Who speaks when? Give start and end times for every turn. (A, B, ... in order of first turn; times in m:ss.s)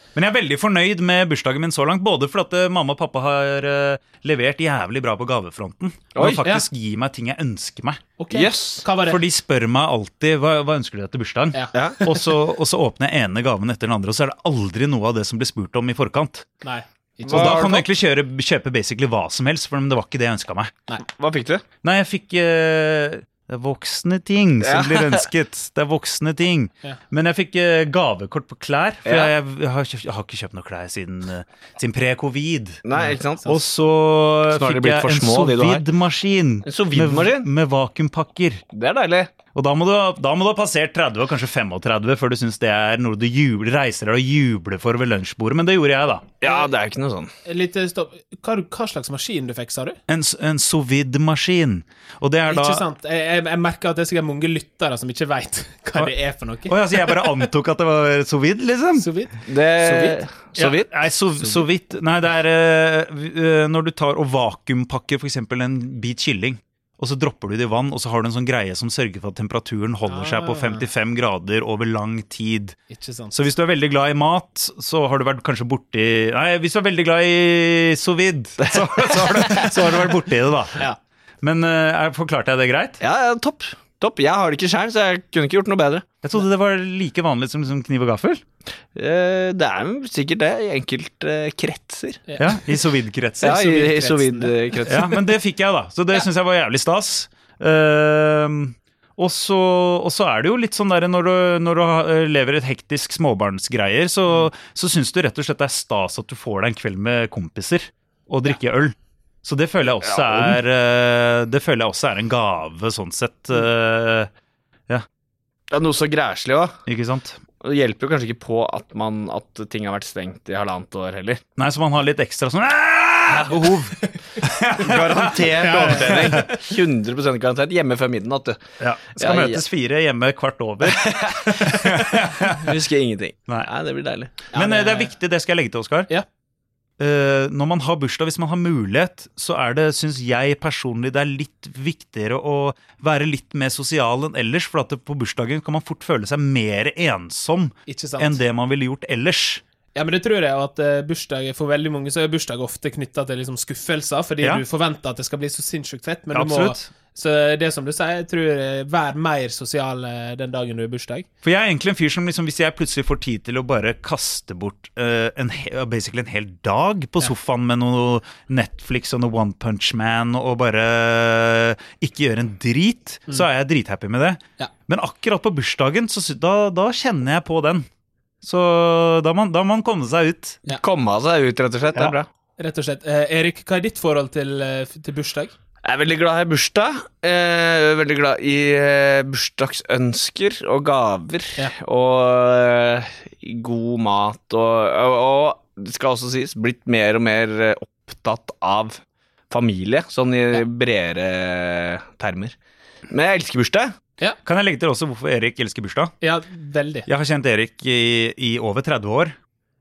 0:00.1-0:08.0 A
0:06.2-0:06.4 B
0:08.2-0:09.2 C
0:08.3-0:08.8 B
0:09.0-0:16.4 A
0:11.5-0:12.2 C
0:11.7-0:12.0 B
0:16.6-0:17.8 C
0:17.2-0:17.8 B
0:17.3-0:20.7 A
0:21.0-0:21.6 B
0:21.8-0:32.8 A
0:24.6-0:25.2 B
0:29.0-0:29.3 B
0:32.8-0:33.6 B
0:33.0-0:33.5 C
0:33.4-0:38.6 A
0:34.5-0:35.8 B
0:36.6-0:37.5 B
0:38.7-0:39.3 B
0:39.5-0:46.3 A
0:46.4-0:47.3 B
0:47.4-0:50.0 C
0:50.1-0:52.8 A
0:52.5-0:57.1 C
0:56.6-0:59.1 A
0:59.0-1:00.2 C
0:59.5-1:00.9 B
1:00.6-1:12.8 A
1:10.1-1:10.8 C
1:12.9-1:13.4 C
1:13.3-1:20.8 A
1:18.6-1:19.9 B
1:21.4-1:23.0 A
1:23.0-1:26.1 B
1:26.2-1:28.4 A
1:28.9-1:32.2 B
1:32.3-1:32.6 C
1:32.4-1:33.6 A
1:33.4-1:35.2 B
1:33.4-1:34.8 C
1:34.9-1:54.3 A
1:50.0-1:50.6 B
1:55.7-1:56.8 B
1:56.8-1:57.4 A
1:57.6-2:01.4 B
2:01.6-2:06.4 A
2:04.8-2:08.6 B
2:05.6-2:06.6 C
2:08.8-2:12.8 A
2:09.2-2:09.6 B
2:10.8-2:14.4 B
2:14.5-2:15.1 C
2:14.5-2:16.1 A
2:17.0-2:29.6 A
2:27.9-2:28.4 C
2:29.9-2:41.2 C
2:36.3-2:36.9 A
2:41.4-2:57.8 A
2:58.4-3:00.6 A
3:00.7-3:02.3 B
3:02.6-3:05.5 C
3:05.8-3:22.6 B
3:23.1-3:23.9 B
3:24.4-3:26.1 A
3:26.2-3:27.1 C
3:27.1-3:29.3 A